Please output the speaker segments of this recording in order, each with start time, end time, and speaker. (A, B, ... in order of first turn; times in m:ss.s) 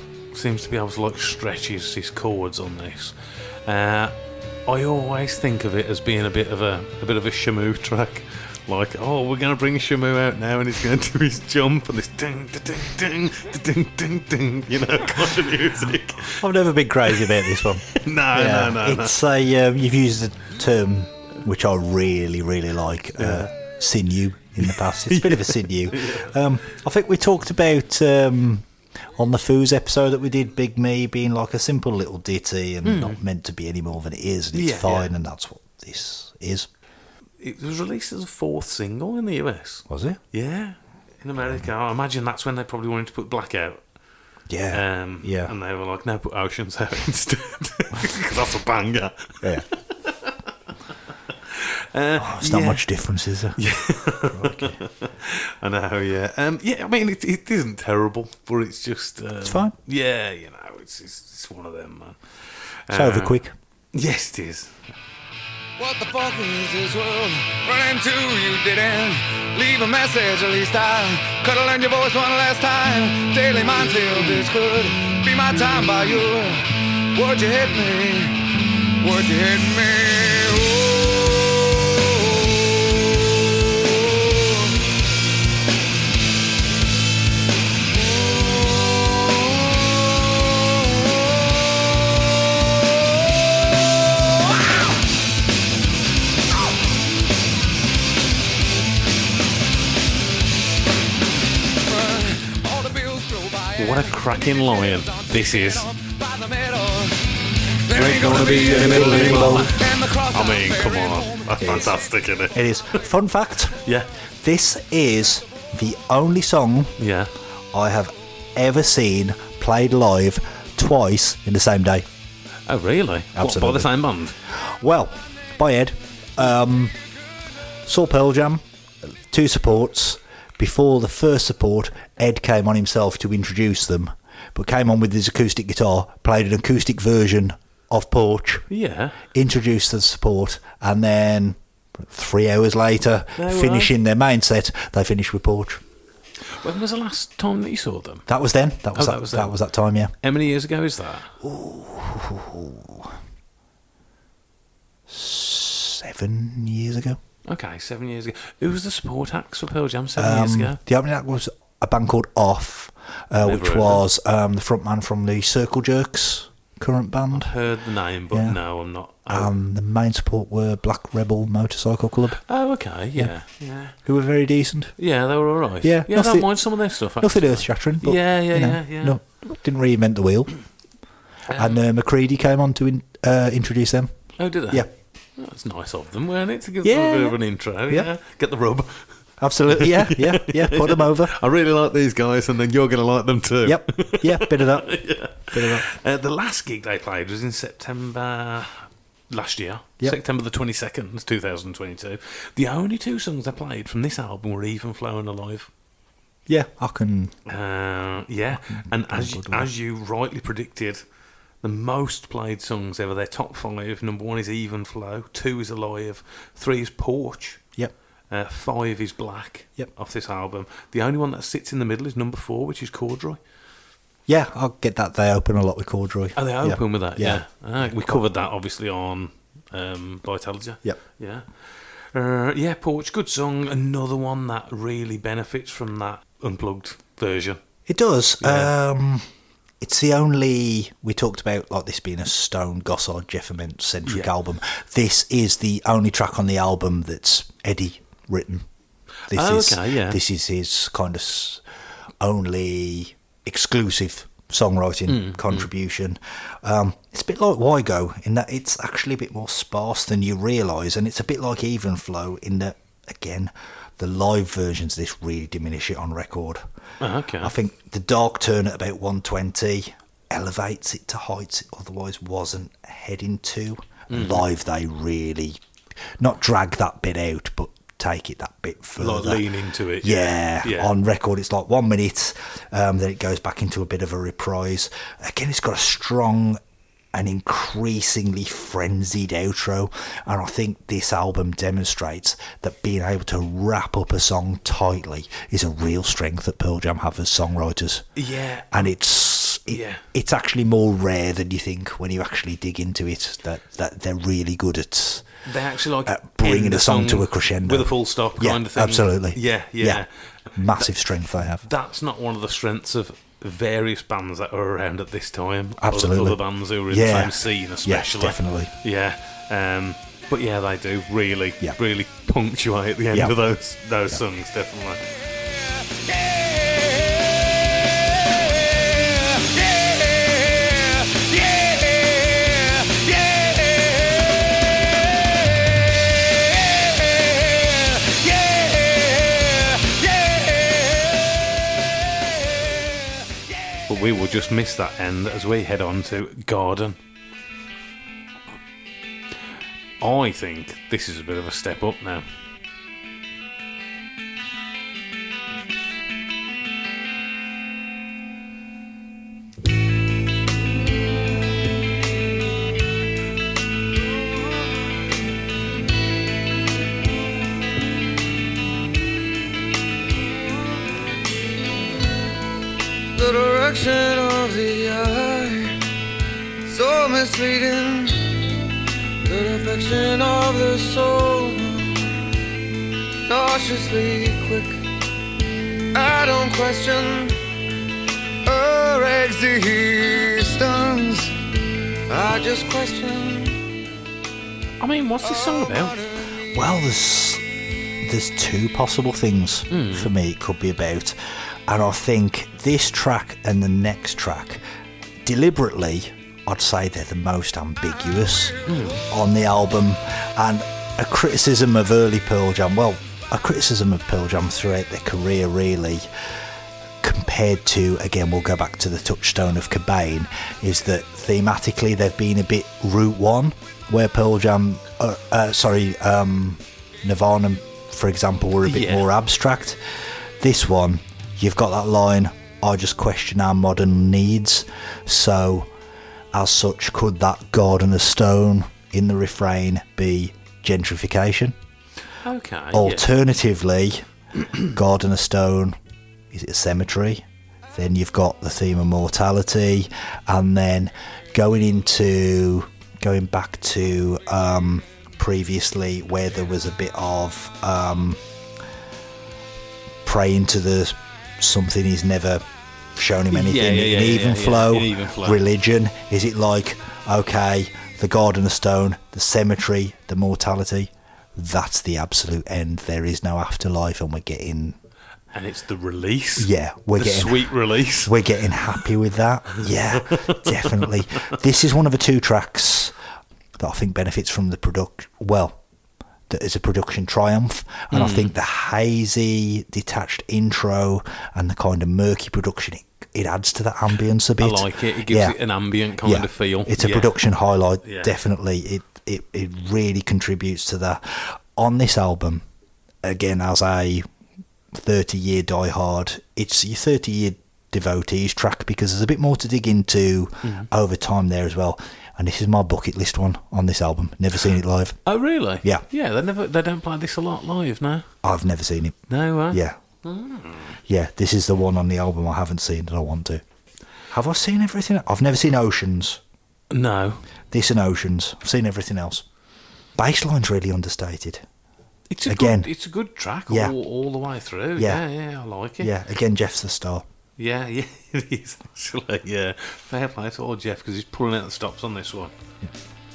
0:00.3-0:16.5 A
0:16.4-0:36.7 B
0:17.1-0:19.2 A
0:23.2-0:23.5 A
0:24.6-0:26.4 A
0:32.8-0:33.2 A
0:34.5-0:35.1 A
0:37.4-0:43.8 A
0:39.9-0:40.2 B
0:44.5-0:45.5 B
0:44.7-0:50.5 A
0:51.4-0:52.8 A
0:52.2-0:53.6 B
0:53.6-1:03.4 A
0:54.3-0:54.7 B
0:59.4-0:59.7 B
1:02.9-1:03.6 B
1:03.9-1:04.7 A
1:05.8-1:24.7 C
1:41.8-1:44.1 C
1:43.8-1:45.9 A
1:44.7-1:47.3 C
1:47.8-1:51.8 C
1:47.9-1:52.6 A
1:48.0-1:49.7 B
1:51.6-1:52.0 B
1:52.5-1:53.8 B
1:53.8-1:54.1 A
1:54.4-1:57.0 B
1:57.0-1:57.3 A
1:57.7-2:02.1 B
2:02.7-2:04.4 A
2:03.4-2:03.9 B
2:04.4-2:07.0 B
2:07.8-2:18.6 B
2:18.7-2:19.2 A
2:19.3-2:25.8 B
2:23.4-2:23.9 A
2:26.5-2:28.3 A
2:28.3-2:30.1 B
2:28.9-2:29.6 A
2:30.2-2:31.3 A
2:31.4-2:33.2 B
2:35.1-2:37.2 B
2:37.5-2:40.8 A
2:40.2-2:47.5 B
2:43.4-2:44.0 A
2:47.3-2:49.5 A
2:48.3-2:48.6 B
2:49.3-2:52.4 B
2:52.5-2:54.0 A
2:53.9-2:55.0 B
2:55.0-2:59.2 A
2:55.8-3:00.5 B
3:01.5-3:01.8 A
3:01.6-3:04.9 B
3:04.4-3:25.7 A
3:06.8-3:07.4 B
3:09.4-3:11.3 B
3:13.6-3:15.8 B
3:26.5-3:27.4 B
3:27.4-3:31.0 A
3:28.7-3:29.7 B
3:31.6-3:37.6 A
3:38.3-3:43.4 A
3:44.3-3:48.2 B
3:46.4-3:57.6 A
3:57.9-3:59.2 B
3:58.4-3:58.7 A
3:59.8-4:08.7 B
4:04.0-4:04.3 A
4:09.3-4:11.6 B
4:09.3-4:10.2 A
4:12.2-4:26.6 B
4:15.1-4:15.7 A
4:27.0-4:27.5 A
4:27.4-4:35.6 B
4:34.1-4:34.4 A
4:36.2-4:39.4 B
4:39.0-4:40.9 A
4:40.0-4:46.6 B
4:47.1-4:58.0 B
4:58.2-4:58.9 A
4:58.7-5:05.3 B
4:59.7-5:00.0 A
5:05.4-5:10.9 A
5:06.1-5:10.0 B
5:10.6-5:11.6 B
5:11.6-5:25.0 A
5:15.8-5:18.7 B
5:26.4-5:27.1 C
5:28.4-5:34.2 C
5:37.1-5:40.8 C
5:43.9-5:47.0 A
5:50.0-5:52.3 A
6:13.1-6:15.8 C
6:16.6-6:18.4 C
6:19.2-6:22.1 C
6:23.3-6:24.8 C
6:25.9-6:27.4 C
6:28.4-6:31.4 C
6:32.1-6:33.6 C
6:34.8-6:36.0 A
6:36.5-6:37.4 B
6:38.0-6:44.6 B
6:39.7-6:40.1 A
6:45.2-6:48.6 B
6:48.7-6:49.0 A
6:49.1-6:56.4 B
6:57.0-7:15.7 B
7:08.6-7:09.1 A
7:16.3-7:21.5 B
7:22.2-7:23.1 A
7:22.7-7:24.1 B
7:24.7-7:25.8 B
7:26.3-7:38.2 B
7:40.0-7:42.4 B
7:42.9-7:54.8 B
7:43.3-7:45.4 A
7:55.3-7:58.2 A
7:56.4-8:02.9 B
8:00.0-8:01.0 A
8:03.6-8:05.6 B
8:06.3-8:15.4 B
8:07.9-8:08.3 A
8:14.4-8:17.1 A
8:16.0-8:22.4 B
8:17.8-8:18.1 A
8:23.0-8:24.1 B
8:24.7-8:35.0 B
8:30.4-8:30.7 A
8:35.1-8:38.1 A
8:38.2-8:39.8 B
8:39.1-8:40.8 A
8:40.9-8:43.4 B
8:44.1-8:46.2 B
8:46.7-8:47.2 A
8:47.5-8:49.2 B
8:50.0-8:51.4 B
8:52.1-8:55.9 A
8:52.3-8:52.7 B
8:53.5-8:53.8 B
8:54.8-8:55.0 B
8:55.8-8:57.0 B
8:57.4-9:02.3 A